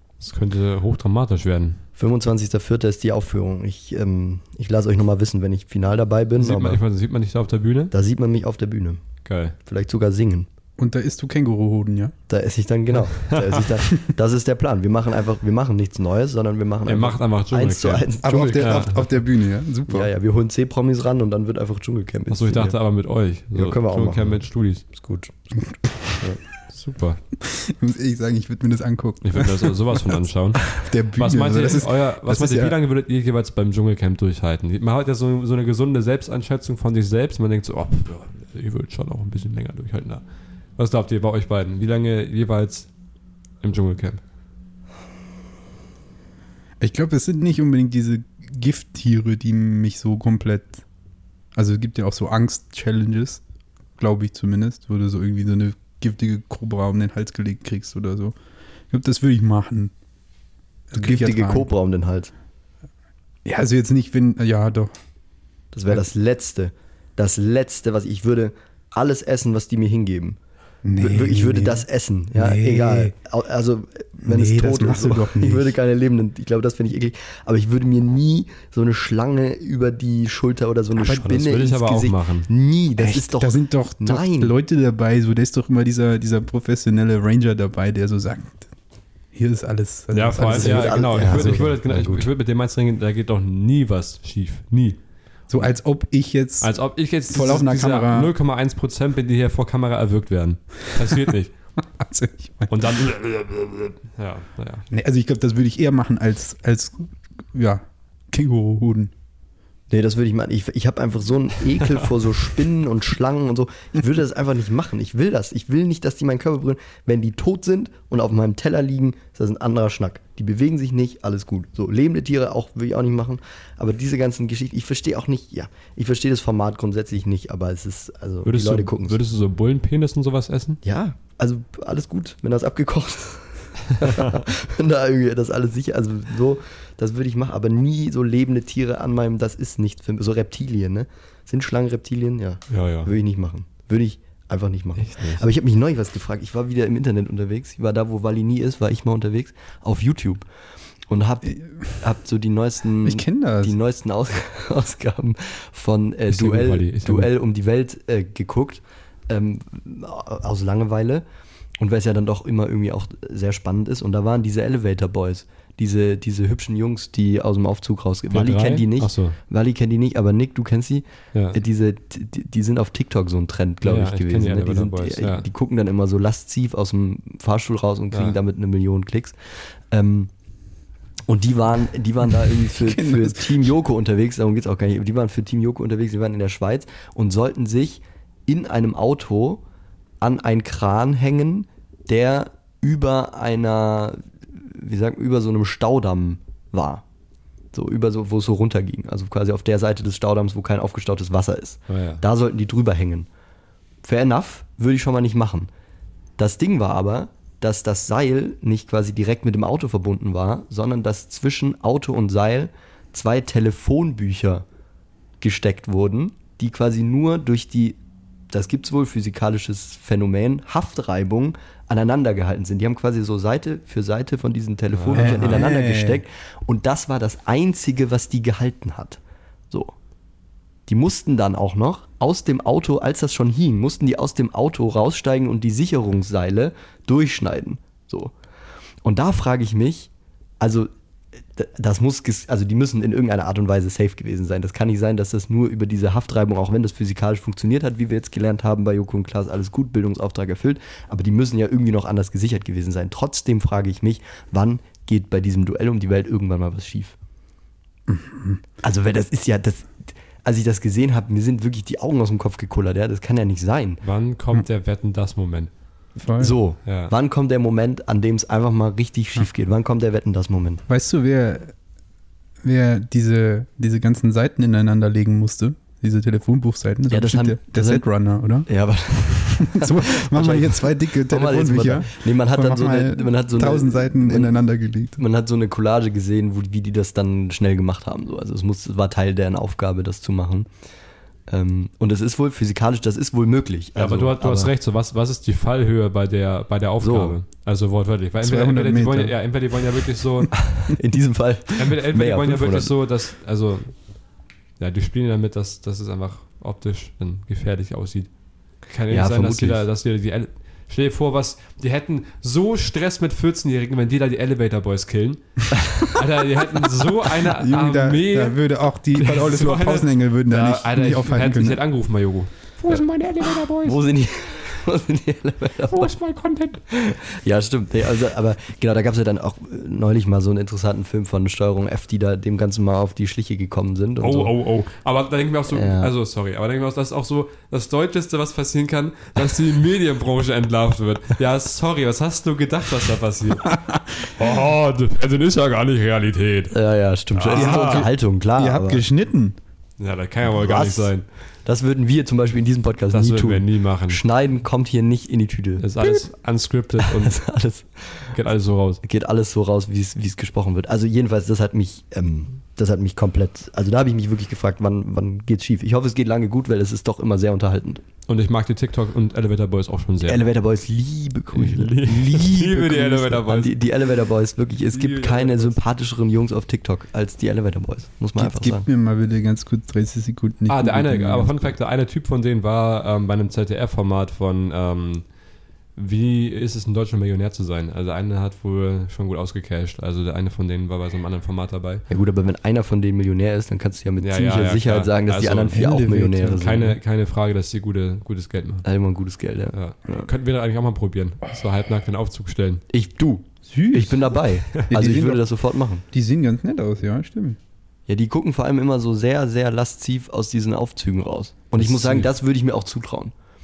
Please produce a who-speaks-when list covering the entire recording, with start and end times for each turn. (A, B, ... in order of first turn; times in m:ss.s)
0:00.2-0:01.8 A
0:02.0-0:06.8 B
0:06.4-0:07.9 A
0:07.9-0:09.0 B
0:09.2-0:09.5 A
0:09.6-0:10.5 B
0:10.8-0:12.1 C
0:12.3-0:18.9 B
0:13.1-0:13.4 A
0:16.8-0:18.9 A
0:18.2-0:20.1 C
0:19.9-0:22.8 B
0:22.3-0:24.8 A
0:23.5-0:25.3 B
0:26.7-0:27.2 A
0:27.4-0:30.0 C
0:29.2-0:40.2 A
0:30.7-0:32.7 C
0:40.8-0:42.9 A
0:43.6-0:44.2 A
0:46.8-0:50.8 C
0:51.5-0:53.4 C
0:54.0-0:58.3 C
0:58.9-0:59.9 C
1:00.9-1:01.7 C
1:00.9-1:02.3 B
1:03.4-1:04.9 C
1:05.7-1:10.4 B
1:10.8-1:13.1 C
1:11.0-1:24.5 B
1:14.2-1:15.8 C
1:21.0-1:22.5 A
1:23.0-1:28.7 C
1:29.3-1:31.7 C
1:30.1-1:35.0 A
1:30.4-1:32.3 B
1:35.5-1:38.3 C
1:36.6-1:41.5 A
1:41.8-1:42.9 C
1:42.7-1:44.8 A
1:44.9-1:49.1 C
1:49.9-2:09.2 B
2:08.4-2:10.8 A
2:10.8-2:30.4 B
2:22.7-2:23.1 A
2:25.0-2:25.4 A
2:31.1-2:41.2 B
2:31.4-2:31.9 C
2:33.0-2:33.7 C
2:36.3-2:37.3 A
2:41.8-3:00.3 B
2:48.3-2:49.4 A
2:53.8-2:55.5 A
3:01.3-3:09.6 B
3:02.8-3:03.7 C
3:10.2-3:17.0 B
3:17.7-3:23.3 B
3:21.9-3:22.2 A
3:24.0-3:25.7 B
3:26.4-3:34.6 B
3:35.4-3:38.0 B
3:38.5-3:49.2 B
3:44.9-3:45.6 A
3:45.1-3:46.2 C
3:50.9-3:58.3 B
3:59.0-4:00.9 B
4:01.5-4:17.2 B
4:18.1-4:18.6 C
4:18.8-4:24.0 B
4:24.0-4:25.7 A
4:26.2-4:26.6 C
4:26.4-4:30.8 B
4:26.8-4:27.1 A
4:30.9-4:31.7 C
4:32.6-4:38.7 C
4:37.1-4:38.1 B
4:38.6-4:44.6 B
4:39.6-4:45.2 C
4:45.2-4:50.7 B
4:51.5-4:54.7 B
4:54.0-5:00.6 A
4:57.0-4:57.4 B
4:58.4-4:59.4 C
5:00.6-5:02.9 B
5:01.8-5:04.0 A
5:04.8-5:08.3 A
5:08.9-5:23.9 A
5:09.1-5:09.8 B
5:17.5-5:21.8 C
5:22.9-5:23.7 C
5:23.8-5:26.1 B
5:25.9-5:26.8 A
5:26.9-5:34.5 B
5:34.2-5:46.8 A
5:35.7-5:36.1 B
5:46.7-5:49.0 B
5:47.3-5:48.1 A
5:47.5-5:49.6 C
5:50.0-5:51.2 A
5:50.5-5:51.1 B
5:51.6-5:55.8 B
5:53.1-5:54.2 A
5:55.8-5:57.4 A
5:57.2-5:58.2 B
5:58.3-5:59.0 A
5:59.0-6:08.0 B
6:08.3-6:10.4 A
6:10.2-6:18.8 B
6:11.5-6:13.9 A
6:14.9-6:15.7 A
6:18.4-6:21.8 C
6:20.7-6:25.2 A
6:26.0-6:32.0 A
6:32.1-6:36.9 B
6:34.2-6:38.8 A
6:35.7-6:37.0 C
6:38.8-6:40.3 B
6:39.7-6:42.8 A
6:42.9-6:46.0 B
6:43.7-6:45.4 C
6:46.1-6:47.6 C
6:48.1-6:53.3 B
6:51.8-6:52.3 A